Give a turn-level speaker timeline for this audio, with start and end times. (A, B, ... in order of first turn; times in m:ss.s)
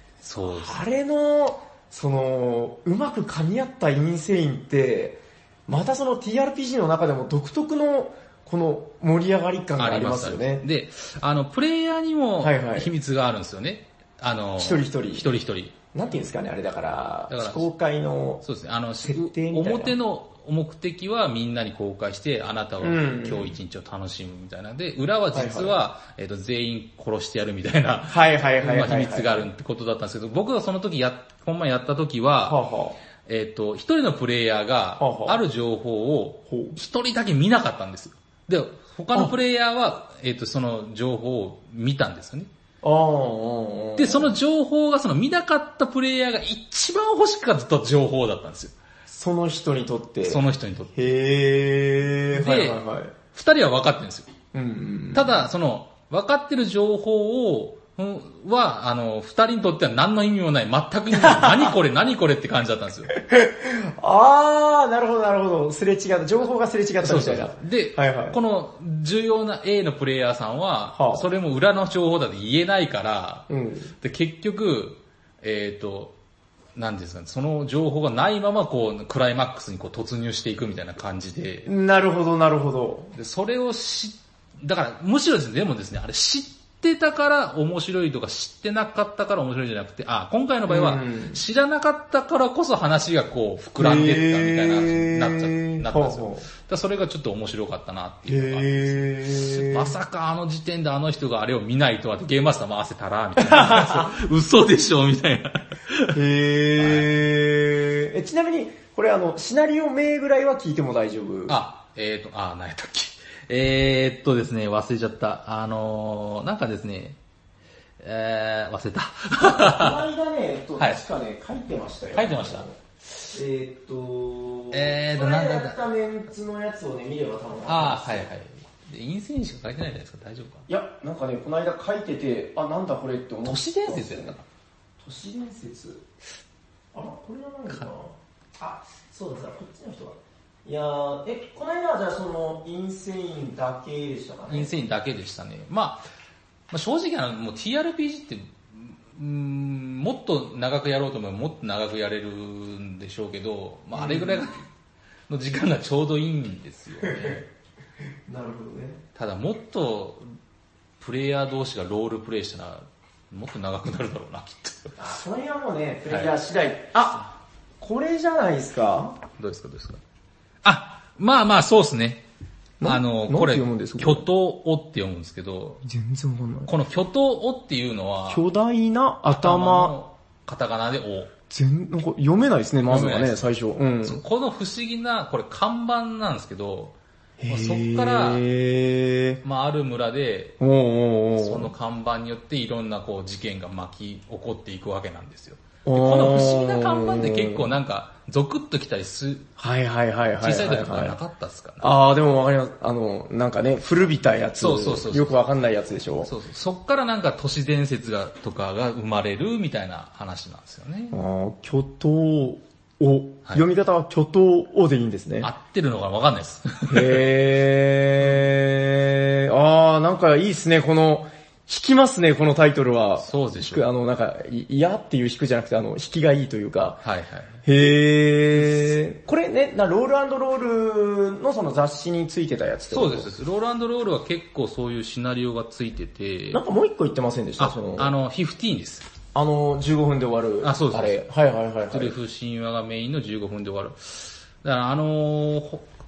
0:00.2-0:00.8 A
0:00.4-0:10.6 B
0:09.8-0:15.8 A
0:12.4-0:12.9 B
0:14.6-0:15.3 B
0:15.9-0:18.4 B
0:17.3-0:17.7 A
0:18.4-0:32.6 A
0:19.0-0:20.0 B
0:22.8-0:23.6 B
0:25.3-0:25.8 B
0:28.1-0:29.5 B
0:32.5-0:33.0 B
0:33.2-0:42.5 A
0:35.0-0:35.4 B
0:36.5-0:36.8 B
0:42.8-0:44.4 B
0:44.0-0:48.7 A
0:49.1-0:50.4 B
0:50.2-0:50.9 A
0:50.9-0:53.1 B
0:52.3-0:52.8 A
0:53.3-0:54.3 A
0:54.5-0:55.5 B
0:55.1-1:03.1 A
1:01.1-1:01.7 B
1:03.1-1:08.4 B
1:07.0-1:13.5 A
1:11.0-1:11.3 B
1:13.5-1:13.9 B
1:14.0-1:16.2 A
1:16.8-1:21.7 A
1:21.7-1:23.1 B
1:23.2-1:46.2 A
1:30.7-1:31.4 B
1:33.8-1:36.5 B
1:38.3-1:39.9 B
1:43.4-1:44.1 B
1:46.1-1:51.6 B
1:46.8-1:47.1 A
1:51.5-1:57.2 A
1:58.0-2:00.0 A
1:59.4-2:02.8 B
2:00.8-2:01.0 A
2:02.1-2:02.7 A
2:03.3-2:08.3 B
2:04.7-2:05.8 A
2:07.7-2:10.6 A
2:10.7-2:14.4 B
2:13.4-2:14.4 A
2:15.0-2:16.0 B
2:16.9-2:24.7 B
2:24.5-2:26.0 A
2:26.7-2:34.6 A
2:34.0-2:34.4 B
2:35.3-2:37.4 A
2:37.0-2:37.4 B
2:38.3-2:39.0 B
2:39.2-2:40.2 A
2:41.0-2:45.0 A
2:45.0-2:49.2 B
2:49.4-2:50.0 A
2:50.6-2:52.2 A
2:52.8-2:54.3 B
2:52.8-2:55.8 A
2:55.8-2:56.7 B
2:56.7-2:58.4 A
2:58.3-2:59.9 B
2:59.3-3:01.3 A
3:01.5-3:04.2 B
3:02.9-3:03.5 A
3:04.0-3:07.0 A
3:07.4-3:09.4 B
3:07.5-3:08.4 A
3:09.4-3:10.6 A
3:10.6-3:11.7 B
3:11.4-3:19.5 A
3:15.8-3:17.7 B
3:19.6-3:21.2 B
3:20.4-3:21.9 A
3:21.8-3:26.3 B
3:24.6-3:25.4 A
3:26.2-3:31.2 A
3:31.1-3:35.5 B
3:35.4-3:37.3 A
3:36.9-3:47.0 B
3:43.2-3:43.8 A
3:47.0-3:47.6 A
3:47.6-3:53.3 B
3:52.9-3:56.6 A
3:56.5-3:58.1 B
3:57.6-3:59.1 A
3:59.4-4:02.2 B
4:00.6-4:01.2 A
4:01.9-4:05.9 A